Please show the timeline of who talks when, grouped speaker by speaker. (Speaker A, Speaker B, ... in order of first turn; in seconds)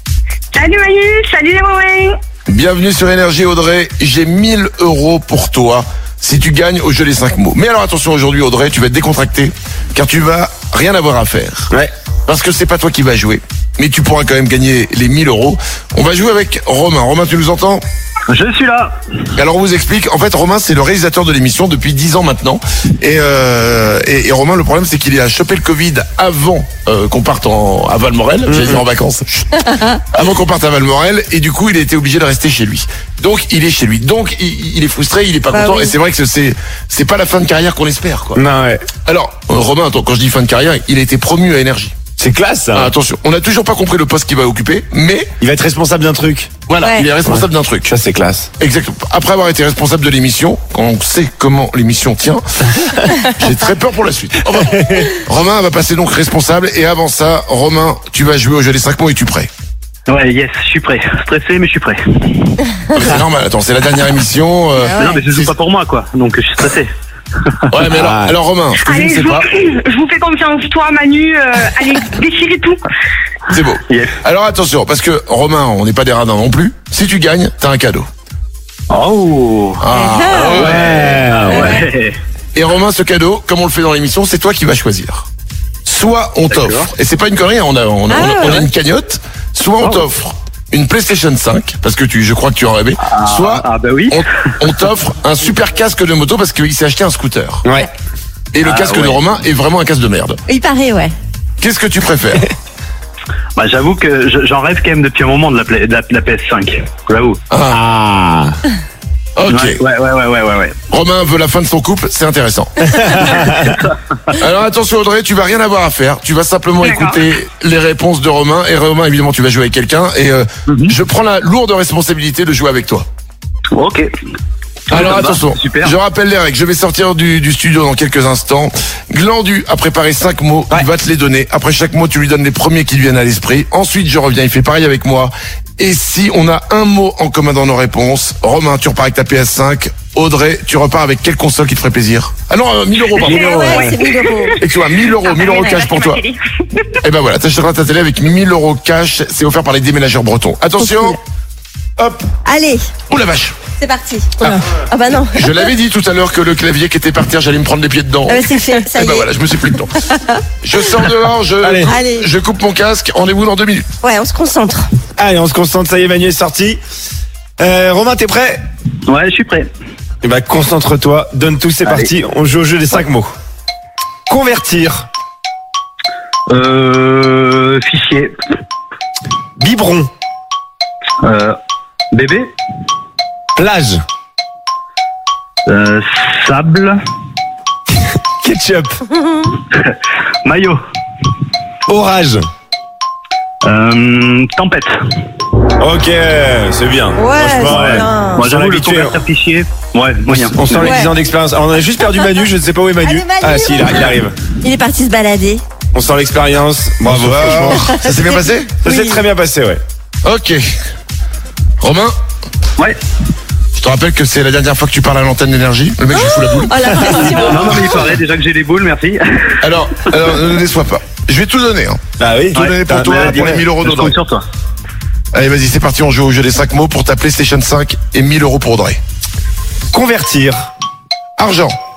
Speaker A: 0.6-2.1, 68.9-72.8, 143.3-143.6, 144.3-144.5, 145.4-146.4
Speaker B: 2.5-11.7, 12.3-17.8, 19.4-38.4, 39.0-41.9, 42.7-45.3, 46.7-47.9, 48.6-52.7, 53.3-59.5, 62.9-65.5, 67.7-69.5, 73.5-78.1, 79.8-81.2, 82.5-85.3, 85.8-97.6, 98.5-100.4, 101.6-102.5, 107.5-107.8, 109.3-109.8, 110.9-113.2, 114.4-123.0, 124.9-143.9, 144.6-146.2, 147.0-151.2, 153.1-153.6, 155.3-160.0, 160.6-163.9, 207.0-208.7, 210.2-210.6, 211.8-212.1, 213.8-218.0, 219.6-222.0, 222.5-224.2, 225.3-229.0, 231.4-231.7
Speaker C: 18.3-18.9, 60.1-62.6, 64.9-66.9, 78.9-79.8, 80.5-82.2, 86.5-86.9, 93.0-94.2, 98.6-99.2, 103.5-107.4, 109.5-110.8, 113.2-114.3, 120.7-120.9, 123.7-124.1, 124.9-125.9, 143.3-143.9, 169.1-169.7, 176.5-178.3, 181.2-181.6, 182.1-182.5, 185.7-187.0, 190.4-190.8, 193.6-194.9, 197.7-200.9, 217.2-219.5, 222.5-224.4
Speaker D: 28.5-28.8, 38.3-38.9, 42.2-42.9, 45.4-46.5, 47.2-48.5, 54.6-55.1, 67.9-68.3, 80.5-81.8, 97.6-97.9, 107.7-108.6, 161.6-161.9, 165.2-166.8, 167.6-168.6, 170.2-173.3, 174.3-175.1, 179.6-180.1, 183.5-184.0, 188.4-189.0, 191.9-192.5, 195.8-199.2, 200.2-204.4, 205.9-207.9, 208.8-209.8, 222.2-223.4, 229.9-230.7
Speaker E: 35.5-35.9, 46.8-47.1, 64.8-65.2, 79.9-80.6, 81.5-81.8, 88.1-88.7, 100.5-101.1, 143.4-144.6, 150.8-151.2, 152.4-152.8, 153.8-155.7, 158.3-159.3, 160.0-160.4, 161.8-162.3, 164.0-164.9, 189.1-189.5, 197.2-198.4, 200.8-201.1, 203.0-205.6, 207.8-209.2, 216.1-218.0